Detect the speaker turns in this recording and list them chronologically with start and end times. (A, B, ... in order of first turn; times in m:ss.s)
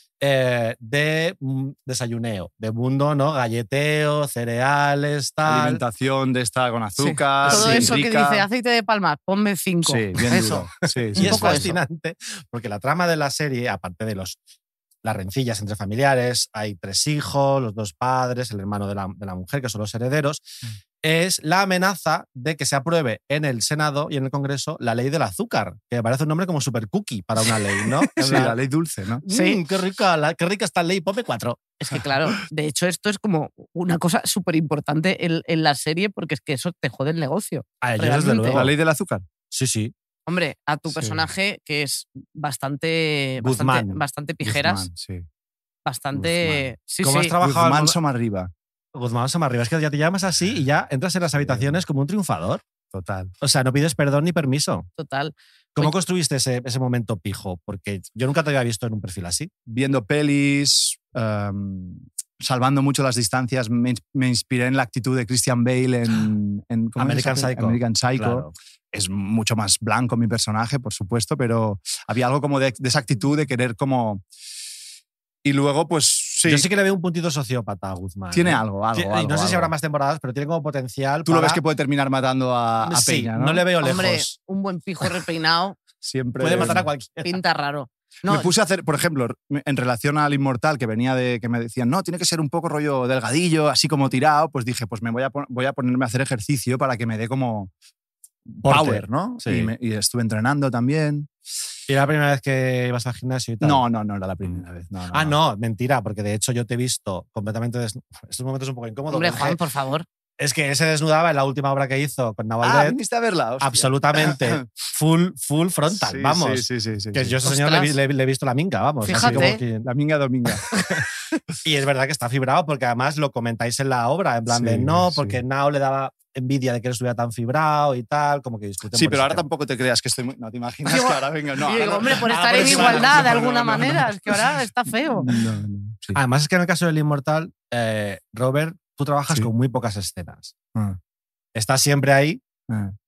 0:00.2-0:05.8 A
0:05.4-0:08.5 B
0:07.0-0:11.7 C
0:07.4-0:08.0 A
0:09.8-0:11.8 B
0:11.1-0:14.4 A
0:15.0-0:20.4 A
0:21.0-0:28.6 A
0:28.2-0:29.2 B
0:29.2-0:31.7 A
0:29.3-0:29.6 C
0:31.8-0:38.7 C
0:37.8-0:38.7 A
0:38.5-0:39.2 B
0:39.5-0:39.9 A
0:40.3-0:44.9 C
0:43.4-0:43.9 A
0:44.4-0:45.3 B
0:45.9-0:47.3 C
0:46.1-0:46.7 B
0:47.0-0:48.0 A
0:47.4-0:48.5 B
0:49.0-0:52.6 A
0:51.4-0:51.8 B
0:52.9-0:53.3 B
0:53.4-0:54.9 A
0:55.0-0:55.9 C
0:55.8-0:59.5 A
0:59.7-1:14.2 B
1:07.0-1:08.5 A
1:15.4-1:16.7 B
1:16.4-1:21.6 A
1:18.3-1:19.7 B
1:21.3-1:23.6 B
1:22.8-1:24.4 A
1:23.8-1:25.8 C
1:26.0-1:26.9 B
1:26.4-1:27.4 A
1:27.2-1:28.5 C
1:28.3-1:37.7 B
1:38.6-1:41.3 B
1:38.6-1:39.7 A
1:41.9-1:43.8 A
1:43.6-1:45.4 B
1:44.4-1:49.6 A
1:49.1-1:50.1 C
1:50.4-1:53.0 A
1:52.6-1:54.6 B
1:53.6-1:59.9 A
1:55.9-1:57.4 B
1:57.4-1:58.0 C
1:59.0-1:59.6 C
1:59.1-2:00.7 B
2:01.6-2:09.4 A
2:04.5-2:05.4 B
2:08.9-2:14.1 B
2:10.9-2:15.3 C
2:11.8-2:14.1 A
2:15.2-2:16.2 B
2:16.2-2:20.5 A
2:21.6-2:22.4 A
2:22.7-2:23.0 B